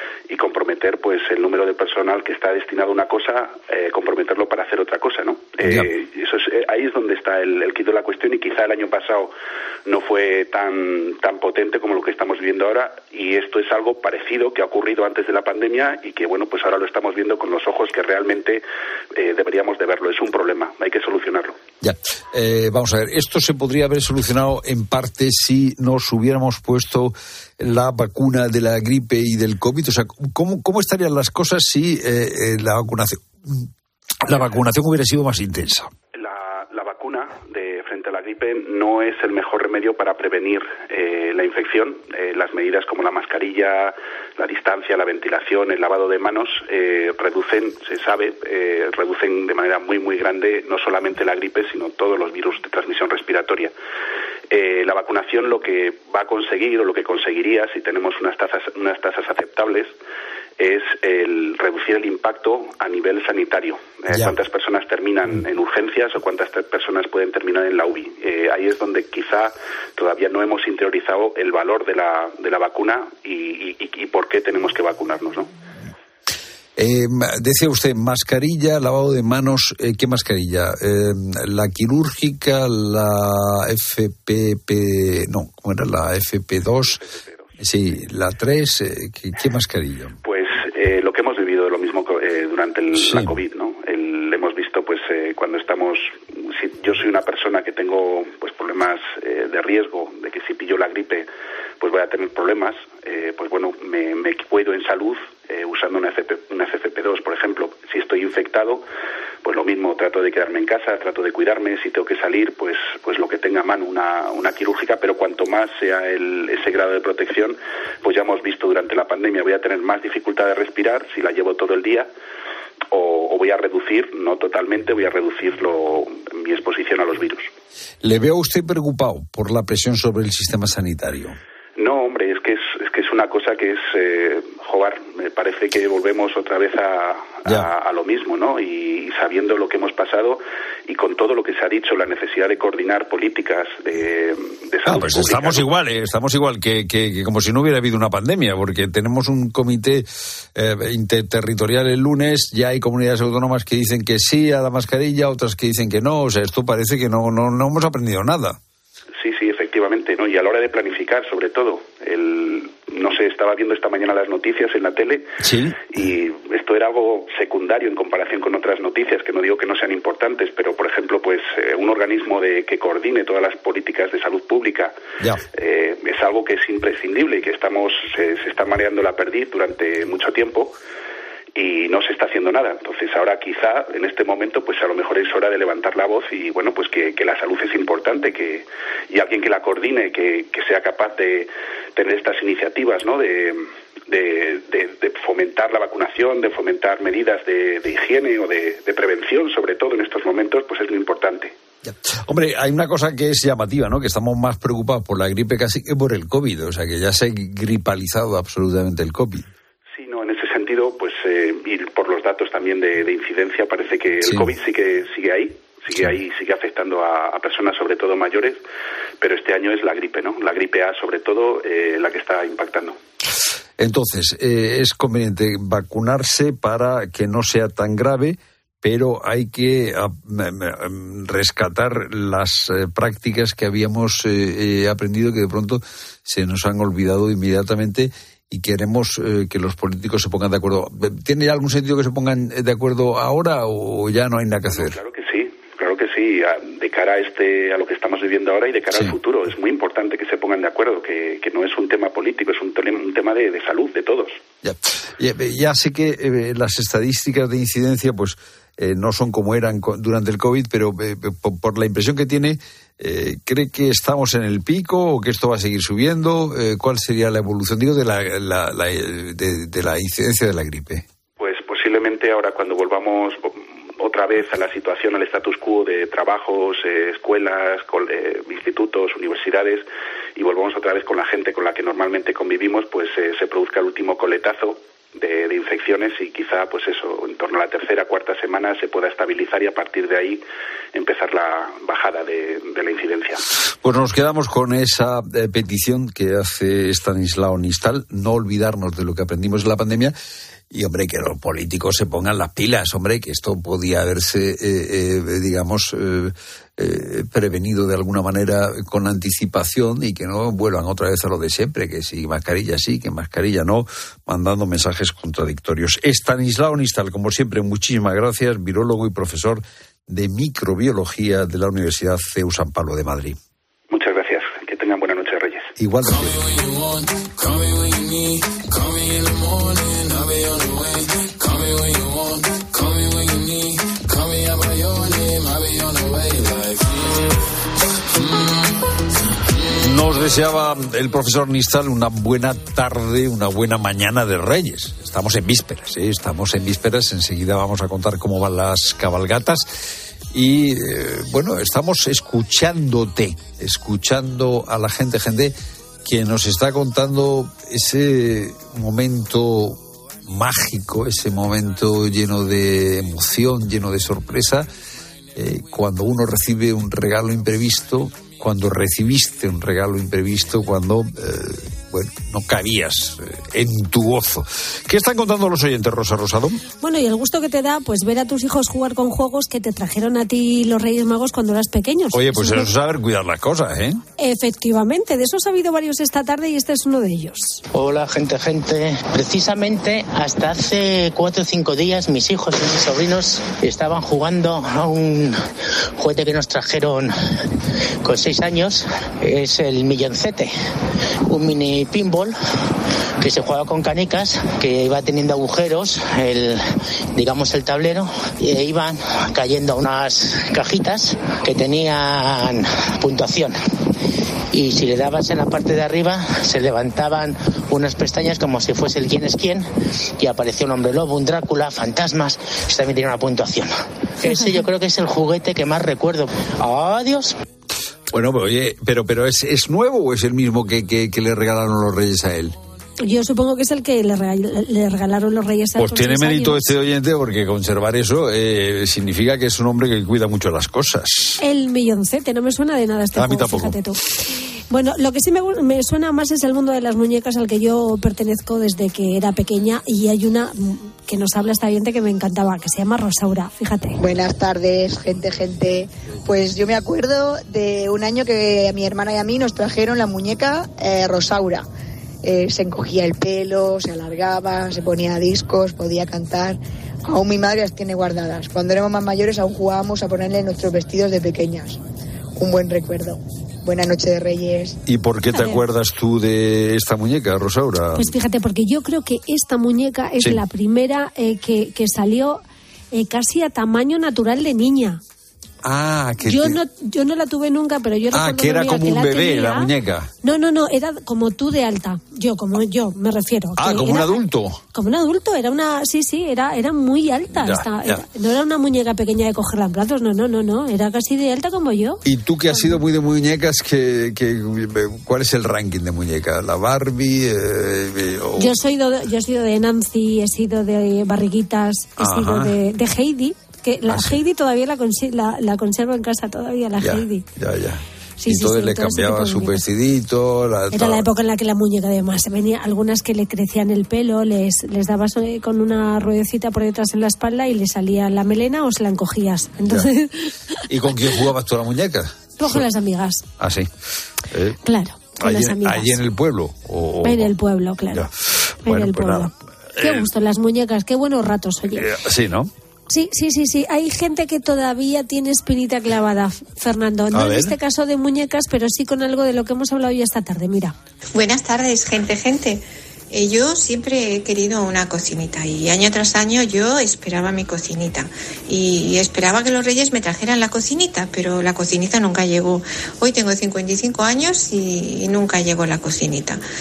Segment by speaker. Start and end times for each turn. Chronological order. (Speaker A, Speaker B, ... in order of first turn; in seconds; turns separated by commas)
Speaker A: 0.3-9.3, Speaker B: 5.6-5.9, Speaker A: 9.8-18.6, Speaker A: 19.1-21.6, Speaker B: 21.8-33.7, Speaker B: 34.3-35.9, Speaker A: 36.1-53.7, Speaker A: 54.5-59.9, Speaker A: 60.6-75.5, Speaker B: 64.1-64.4, Speaker B: 76.8-87.0, Speaker A: 86.8-87.4, Speaker B: 87.6-90.2, Speaker A: 90.2-101.3, Speaker B: 93.0-93.4, Speaker A: 101.8-108.8, Speaker A: 109.4-122.1, Speaker A: 122.9-127.5, Speaker B: 128.0-131.4, Speaker A: 131.8-145.7, Speaker B: 144.8-158.6, Speaker A: 159.2-165.3, Speaker B: 165.4-166.0, Speaker A: 165.9-174.9, Speaker A: 175.6-180.7, Speaker A: 181.5-201.5, Speaker B: 201.8-209.5, Speaker A: 209.9-218.6, Speaker B: 214.2-214.5, Speaker A: 219.2-222.9, Speaker B: 223.8-245.0, Speaker A: 244.7-254.4, Speaker B: 254.6-271.0, Speaker A: 271.4-279.8, Speaker A: 280.4-290.4, Speaker A: 290.9-293.4, Speaker B: 293.8-300.1, Speaker B: 300.7-323.4, Speaker A: 323.9-325.7, Speaker B: 325.8-326.5, Speaker B: 339.8-349.6, Speaker B: 350.3-364.7, Speaker B: 365.3-376.6, Speaker C: 376.8-382.7, Speaker B: 382.1-384.0, Speaker C: 384.2-387.6, Speaker D: 387.7-395.4, Speaker D: 396.0-397.1, Speaker D: 398.0-400.5, Speaker D: 401.3-402.4, Speaker D: 403.2-406.6, Speaker D: 407.1-413.5, Speaker D: 414.5-419.6, Speaker D: 420.2-423.7, Speaker C: 424.2-424.7, Speaker D: 424.2-427.3, Speaker B: 428.1-432.6, Speaker C: 433.0-436.8, Speaker B: 435.8-441.4, Speaker C: 441.4-444.0, Speaker B: 443.1-443.8, Speaker C: 444.7-454.0, Speaker E: 454.0-461.6, Speaker E: 462.2-471.8, Speaker E: 472.4-474.8, Speaker B: 474.9-478.1, Speaker C: 475.3-475.6, Speaker C: 477.9-485.0, Speaker B: 480.2-480.4, Speaker B: 485.6-486.6, Speaker C: 486.2-489.7, Speaker B: 488.1-490.1, Speaker C: 490.2-494.2, Speaker B: 493.6-494.6, Speaker C: 494.7-502.8, Speaker B: 497.3-498.0, Speaker B: 502.0-508.6, Speaker C: 508.4-517.2, Speaker B: 512.0-512.6, Speaker B: 513.8-514.2, Speaker B: 516.8-521.1, Speaker C: 518.2-519.6, Speaker C: 520.7-530.3, Speaker B: 529.6-529.9, Speaker B: 530.7-532.7, Speaker C: 532.4-533.2, Speaker B: 533.4-533.7, Speaker B: 534.3-534.6, Speaker C: 534.6-536.0, Speaker B: 535.2-537.3, Speaker C: 537.0-538.1, Speaker B: 538.6-540.1, Speaker C: 538.6-541.9, Speaker B: 541.7-542.5, Speaker C: 542.9-550.8, Speaker B: 547.1-547.5, Speaker F: 551.1-566.4